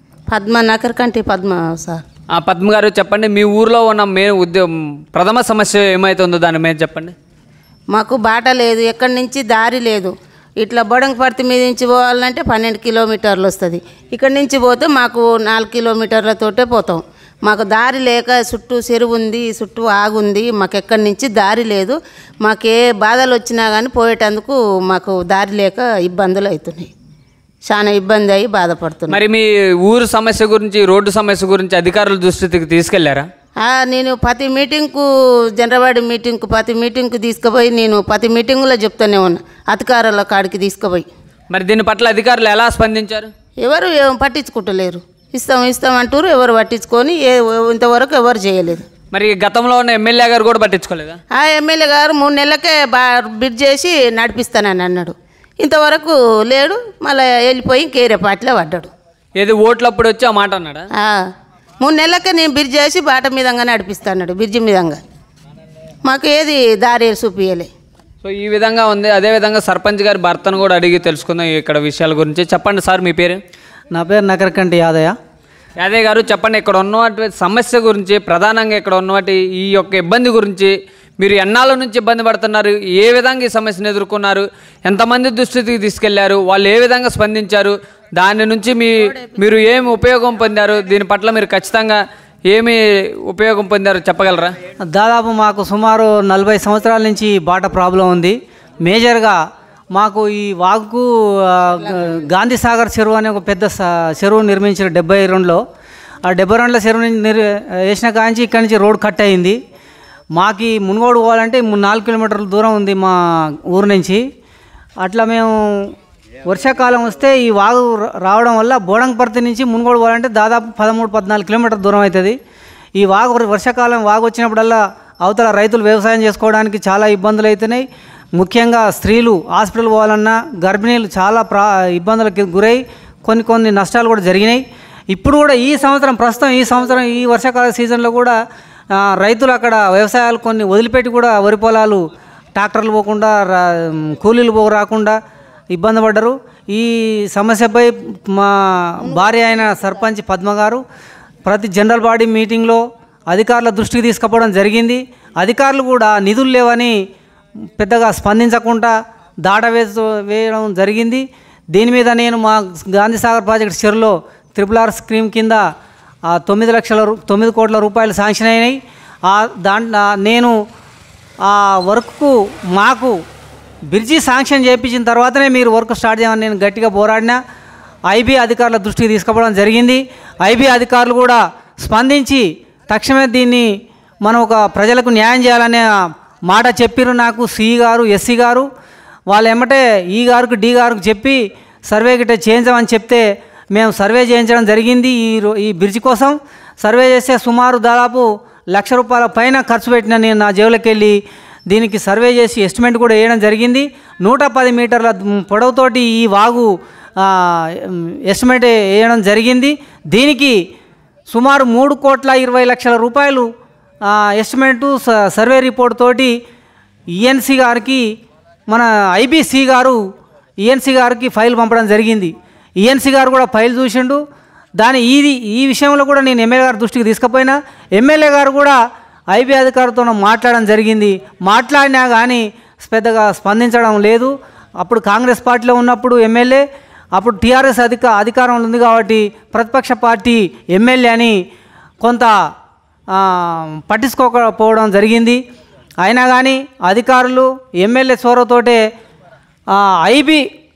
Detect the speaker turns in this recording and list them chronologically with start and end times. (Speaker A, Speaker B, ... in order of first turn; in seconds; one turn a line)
Speaker A: 0.3-2.0
Speaker B: 2.4-7.1
Speaker A: 7.9-26.9
Speaker A: 27.7-29.2
Speaker B: 29.1-33.3
Speaker A: 33.6-41.1
Speaker B: 41.5-43.3
Speaker A: 43.6-48.9
Speaker B: 49.1-51.2
Speaker A: 51.3-58.9
Speaker B: 59.4-60.9
Speaker A: 61.0-61.2
Speaker A: 61.8-65.0
Speaker A: 66.0-67.7
Speaker B: 68.2-73.4
Speaker C: 73.9-75.2
Speaker B: 75.8-94.5
Speaker C: 94.8-99.4
Speaker C: 99.9-105.6
Speaker C: 106.2-109.6
Speaker C: 110.3-114.2
Speaker C: 115.0-115.9
Speaker C: 116.5-122.4
Speaker C: 123.0-138.4
Speaker C: 138.9-142.0
Speaker C: 142.6-145.2
Speaker C: 145.7-150.8
Speaker A: 149.1-149.9
Speaker C: 151.5-157.0
Speaker C: 157.8-165.6
Speaker C: 166.3-170.5
Speaker C: 171.4-173.2
Speaker C: 173.9-177.4
Speaker C: 178.1-183.7
Speaker C: 184.2-185.9
Speaker C: 186.4-188.7
Speaker C: 189.3-210.6
Speaker C: 211.3-213.5
Speaker C: 214.0-216.3
Speaker C: 217.1-218.1
Speaker C: 218.7-220.0
Speaker C: 220.6-224.2
Speaker C: 224.8-228.8
Speaker C: 229.3-241.4
Speaker C: 242.0-242.3
Speaker C: 243.1-245.4
Speaker C: 246.0-248.8
Speaker C: 249.7-250.4